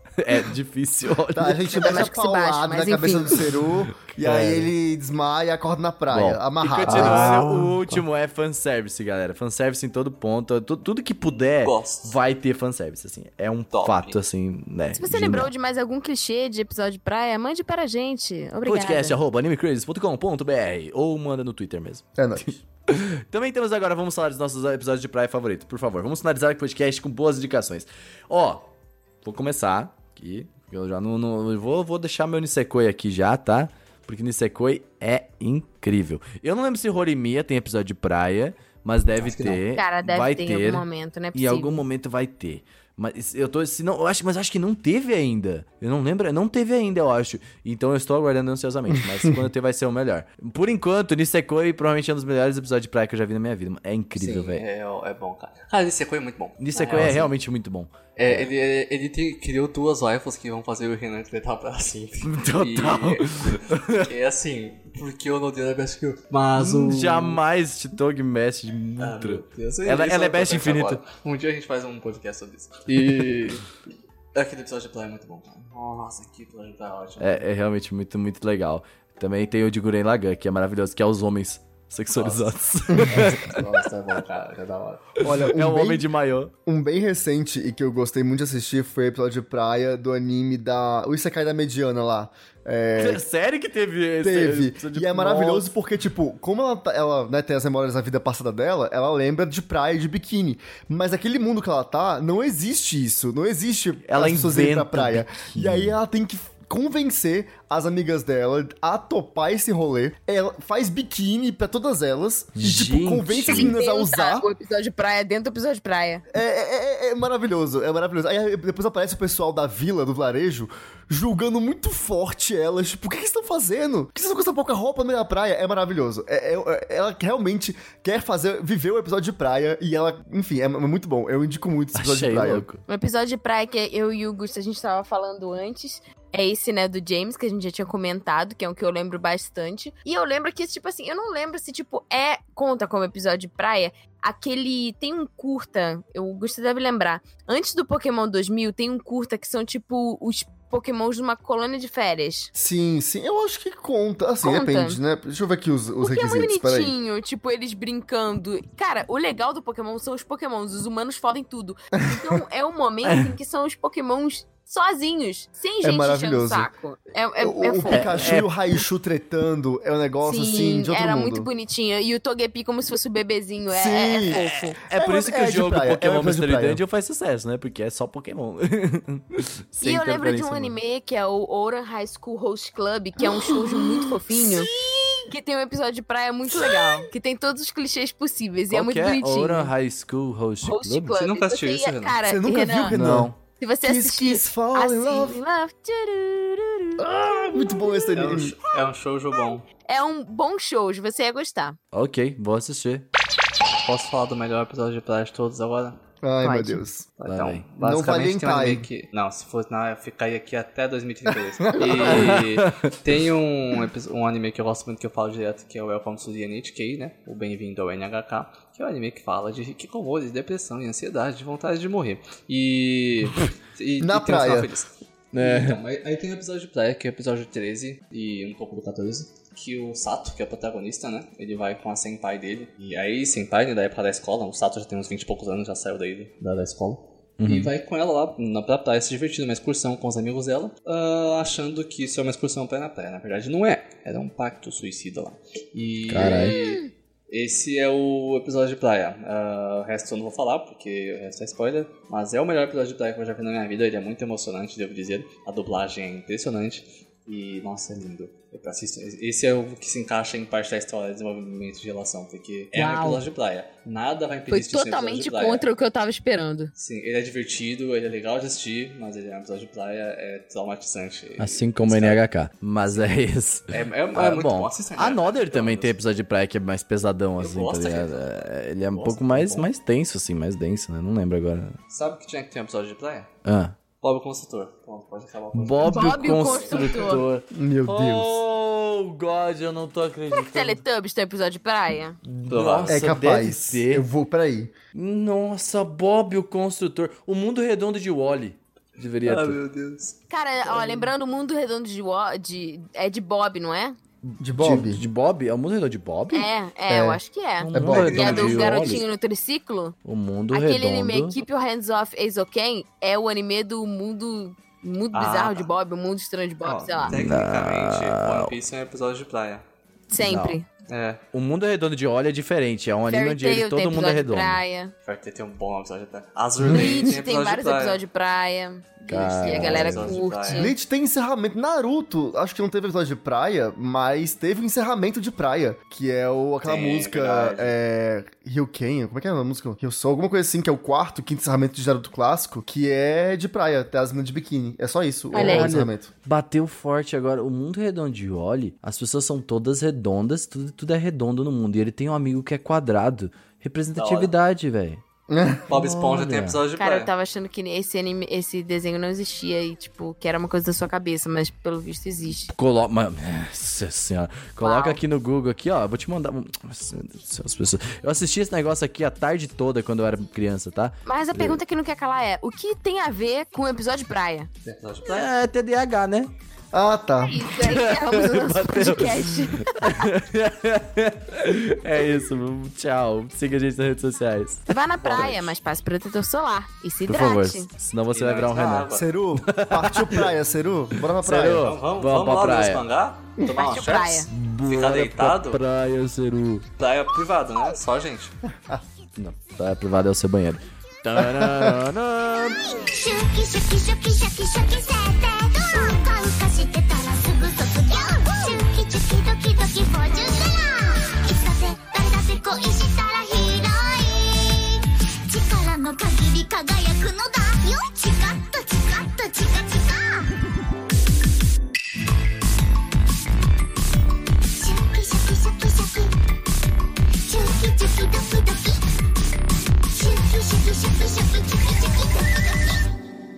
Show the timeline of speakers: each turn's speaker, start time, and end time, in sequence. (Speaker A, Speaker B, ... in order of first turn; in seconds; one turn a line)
Speaker A: 0.2-1.9
Speaker B: 1.3-7.4
Speaker C: 1.7-3.4
Speaker A: 4.1-4.7
Speaker A: 6.1-15.5
Speaker D: 6.9-8.0
Speaker D: 11.6-12.2
Speaker D: 13.7-14.2
Speaker C: 14.9-19.2
Speaker A: 18.6-28.6
Speaker B: 22.2-22.5
Speaker A: 29.2-54.6
Speaker D: 39.1-39.6
Speaker C: 39.7-41.8
Speaker D: 54.2-57.3
Speaker A: 56.6-58.5
Speaker D: 58.2-67.4
Speaker A: 62.2-64.1
Speaker A: 66.5-71.0
Speaker D: 69.0-73.7
Speaker D: 74.3-77.5
Speaker A: 77.2-83.6
Speaker D: 82.1-82.5
Speaker B: 82.9-83.2
Speaker D: 83.1-85.2
Speaker B: 85.2-86.1
Speaker A: 85.4-86.5
Speaker B: 86.7-93.2
Speaker A: 93.0-95.7
Speaker B: 94.2-114.5
Speaker A: 104.1-106.0
Speaker A: 112.6-113.8
Speaker C: 113.5-116.2
Speaker B: 116.3-132.7
Speaker A: 131.9-132.8
Speaker C: 132.9-152.5
Speaker B: 152.6-156.9
Speaker C: 154.4-155.0
Speaker C: 156.0-168.2
Speaker B: 162.0-162.3
Speaker A: 163.0-163.3
Speaker B: 165.8-166.7
Speaker B: 167.4-171.5
Speaker A: 167.9-168.6
Speaker C: 170.2-174.8
Speaker B: 173.7-176.8
Speaker A: 174.3-180.8
Speaker C: 179.8-184.7
Speaker B: 183.2-184.6
Speaker C: 185.2-189.7
Speaker A: 188.7-191.2
Speaker C: 190.6-193.0
Speaker D: 191.2-192.2
Speaker B: 192.2-193.3
Speaker A: 192.9-193.4
Speaker C: 193.6-197.0
Speaker B: 193.8-195.4
Speaker B: 197.0-198.6
Speaker D: 198.2-199.7
Speaker C: 199.9-201.8
Speaker A: 201.9-203.1
Speaker D: 203.8-206.0
Speaker B: 206.2-207.1
Speaker C: 206.4-206.8
Speaker D: 207.2-265.6
Speaker A: 207.3-207.7
Speaker B: 207.8-208.9
Speaker B: 211.7-212.4
Speaker A: 211.8-212.8
Speaker B: 224.0-224.7
Speaker A: 225.3-225.8
Speaker A: 237.4-237.7
Speaker A: 246.1-246.6
Speaker C: 246.3-246.8
Speaker C: 262.7-263.2
Speaker C: 264.5-266.7
Speaker D: 266.8-272.2
Speaker A: 271.4-281.8
Speaker D: 273.7-275.9
Speaker D: 277.4-278.4
Speaker D: 278.9-279.7
Speaker D: 281.9-283.3
Speaker A: 283.4-283.8
Speaker D: 284.0-287.2
Speaker A: 285.5-290.8
Speaker C: 285.8-287.2
Speaker B: 287.5-288.4
Speaker C: 290.3-292.2
Speaker A: 292.2-294.1
Speaker D: 292.5-292.9
Speaker B: 292.9-294.7
Speaker A: 294.9-299.6
Speaker D: 299.2-301.1
Speaker C: 300.3-304.0
Speaker A: 304.2-306.5
Speaker B: 304.4-305.0
Speaker C: 306.3-309.9
Speaker B: 306.9-307.2
Speaker A: 307.6-309.0
Speaker B: 307.7-308.2
Speaker D: 307.9-309.0
Speaker A: 310.1-311.4
Speaker C: 310.5-317.2
Speaker D: 315.1-315.7
Speaker D: 316.6-319.6
Speaker A: 317.1-318.5
Speaker C: 320.1-320.7
Speaker A: 320.2-320.6
Speaker D: 320.9-321.2
Speaker A: 321.3-324.6
Speaker C: 323.1-324.9
Speaker D: 325.1-328.0
Speaker A: 326.6-327.1
Speaker C: 326.7-330.8
Speaker A: 329.0-330.2
Speaker D: 329.1-330.7
Speaker B: 330.5-346.1
Speaker D: 336.6-337.8
Speaker C: 345.3-345.7
Speaker A: 345.3-355.0
Speaker D: 354.0-354.3
Speaker B: 355.3-355.7
Speaker A: 355.7-356.6
Speaker D: 355.7-357.1
Speaker C: 356.8-362.5
Speaker A: 362.5-371.6
Speaker C: 364.6-365.0
Speaker C: 371.1-374.5
Speaker D: 374.6-375.3
Speaker A: 375.1-376.3
Speaker B: 376.7-377.5
Speaker C: 377.2-380.1
Speaker A: 377.6-384.7
Speaker C: 384.7-387.7
Speaker D: 385.0-385.5
Speaker A: 387.1-390.3
Speaker D: 388.1-389.1
Speaker B: 388.9-391.7
Speaker A: 391.0-392.9
Speaker D: 391.6-395.6
Speaker C: 393.5-394.3
Speaker A: 394.3-396.7
Speaker D: 396.8-398.3
Speaker A: 399.2-402.6
Speaker B: 401.2-401.8
Speaker E: 402.3-420.3
Speaker E: 424.5-426.1
Speaker E: 427.3-428.8
Speaker E: 429.9-432.9